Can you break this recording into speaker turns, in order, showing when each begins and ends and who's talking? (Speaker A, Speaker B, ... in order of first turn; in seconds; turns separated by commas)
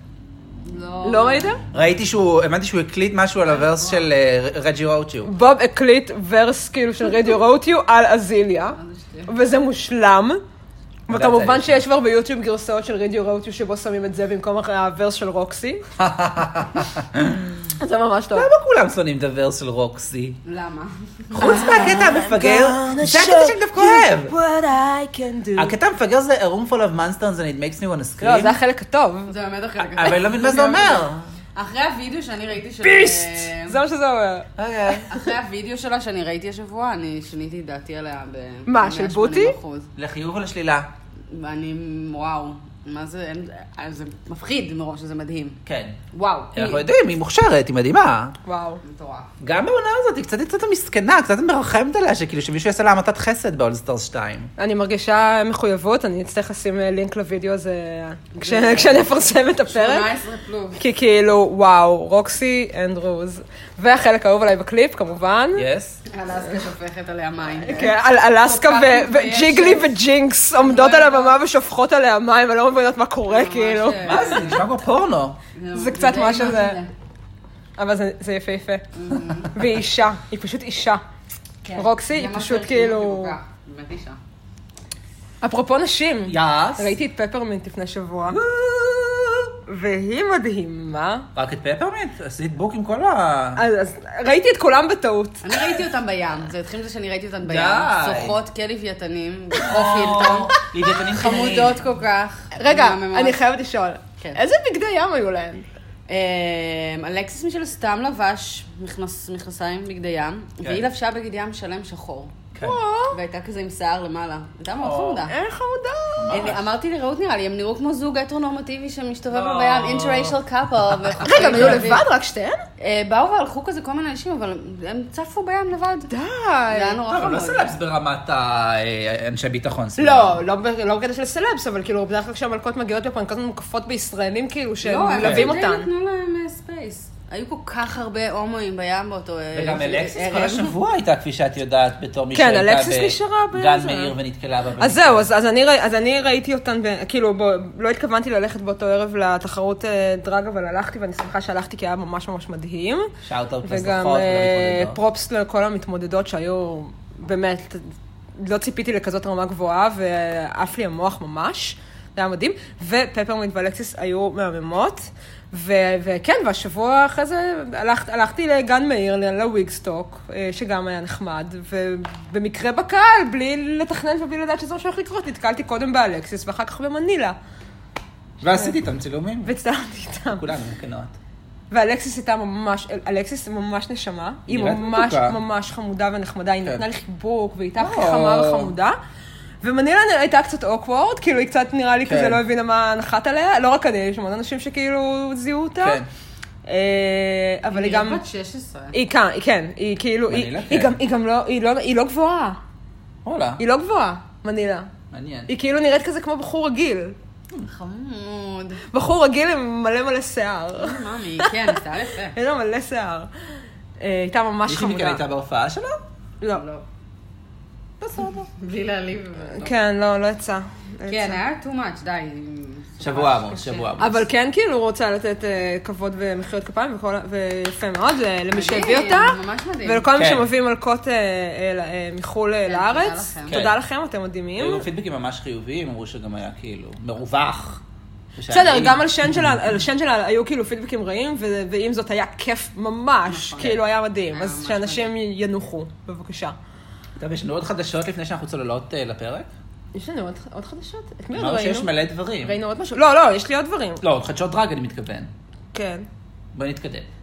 Speaker A: 0.6-1.5, Speaker B: 1.0-1.6, Speaker C: 1.7-5.3, Speaker A: 3.5-4.0, Speaker B: 5.2-10.4, Speaker A: 8.7-9.3, Speaker B: 11.1-15.8, Speaker C: 11.1-11.8, Speaker C: 16.0-17.6, Speaker B: 17.8-18.5, Speaker C: 18.3-20.4, Speaker A: 20.4-21.8, Speaker C: 21.3-24.3, Speaker B: 21.4-25.7, Speaker C: 25.6-28.6, Speaker B: 28.2-29.3, Speaker A: 29.3-33.8, Speaker C: 29.8-31.3, Speaker B: 32.8-34.9, Speaker C: 34.6-35.1, Speaker A: 35.1-39.9, Speaker B: 38.7-39.5, Speaker C: 40.0-40.9, Speaker A: 41.3-45.6, Speaker C: 45.6-46.0, Speaker A: 46.2-46.7, Speaker C: 46.5-48.3, Speaker B: 48.4-48.8, Speaker A: 48.8-49.3, Speaker C: 49.4-54.5, Speaker B: 54.6-60.1, Speaker A: 58.4-59.1, Speaker A: 59.7-60.8, Speaker B: 60.8-65.7, Speaker C: 65.5-66.0, Speaker A: 66.1-69.9, Speaker B: 67.6-74.2, Speaker A: 70.6-71.4, Speaker A: 73.3-74.6, Speaker C: 74.0-75.4, Speaker A: 75.5-76.9, Speaker B: 75.7-76.8, Speaker B: 77.8-78.8, Speaker A: 78.9-79.5, Speaker B: 79.5-81.0, Speaker A: 81.6-84.2, Speaker B: 81.7-83.3, Speaker B: 85.4-88.4, Speaker C: 86.3-86.9, Speaker C: 88.3-89.5, Speaker B: 89.7-91.3, Speaker C: 91.3-93.6, Speaker B: 93.5-95.6, Speaker A: 95.4-103.4, Speaker C: 97.4-98.4, Speaker C: 99.6-101.8, Speaker B: 102.5-105.7, Speaker A: 106.1-112.4, Speaker B: 112.6-113.2, Speaker A: 113.1-115.3, Speaker C: 114.8-115.2, Speaker B: 115.3-116.4, Speaker C: 116.2-116.6, Speaker A: 116.3-122.0, Speaker C: 119.3-122.0, Speaker B: 121.2-122.6, Speaker A: 122.8-126.1, Speaker B: 126.1-127.0, Speaker A: 126.7-127.8, Speaker C: 127.1-130.4, Speaker B: 130.0-135.9, Speaker A: 134.8-140.8, Speaker C: 135.2-135.6, Speaker C: 139.5-145.3, Speaker B: 142.3-144.1, Speaker B: 144.8-153.1, Speaker C: 153.2-155.0, Speaker B: 153.6-177.4, Speaker C: 178.4-179.5, Speaker B: 179.4-180.4, Speaker C: 180.3-181.1, Speaker B: 181.7-189.0, Speaker C: 184.5-185.4, Speaker C: 187.8-188.7, Speaker B: 189.6-196.0, Speaker C: 192.0-192.4, Speaker C: 195.8-196.1, Speaker B: 196.7-198.2, Speaker A: 197.7-198.9, Speaker B: 198.9-202.6, Speaker C: 200.3-201.0, Speaker C: 203.2-203.6, Speaker B: 203.6-204.9, Speaker C: 205.1-205.5, Speaker B: 205.5-207.2, Speaker A: 207.6-208.8, Speaker B: 208.9-211.8, Speaker A: 210.8-212.4, Speaker B: 212.3-213.3, Speaker B: 214.0-215.2, Speaker C: 214.7-216.0, Speaker A: 216.5-216.8, Speaker C: 218.0-218.5, Speaker A: 218.6-219.7, Speaker B: 219.6-221.4, Speaker A: 221.1-223.9, Speaker C: 223.0-224.2, Speaker B: 224.0-234.8, Speaker A: 228.5-230.1, Speaker C: 230.1-230.5, Speaker A: 232.7-233.6, Speaker C: 233.5-233.7, Speaker C: 234.6-237.8, Speaker C: 238.3-239.7, Speaker B: 238.5-246.5, Speaker A: 243.3-245.1, Speaker C: 247.2-249.5, Speaker B: 249.9-251.9, Speaker C: 251.3-252.6, Speaker B: 252.4-254.0, Speaker C: 254.0-255.3, Speaker B: 255.7-256.1, Speaker C: 256.5-257.1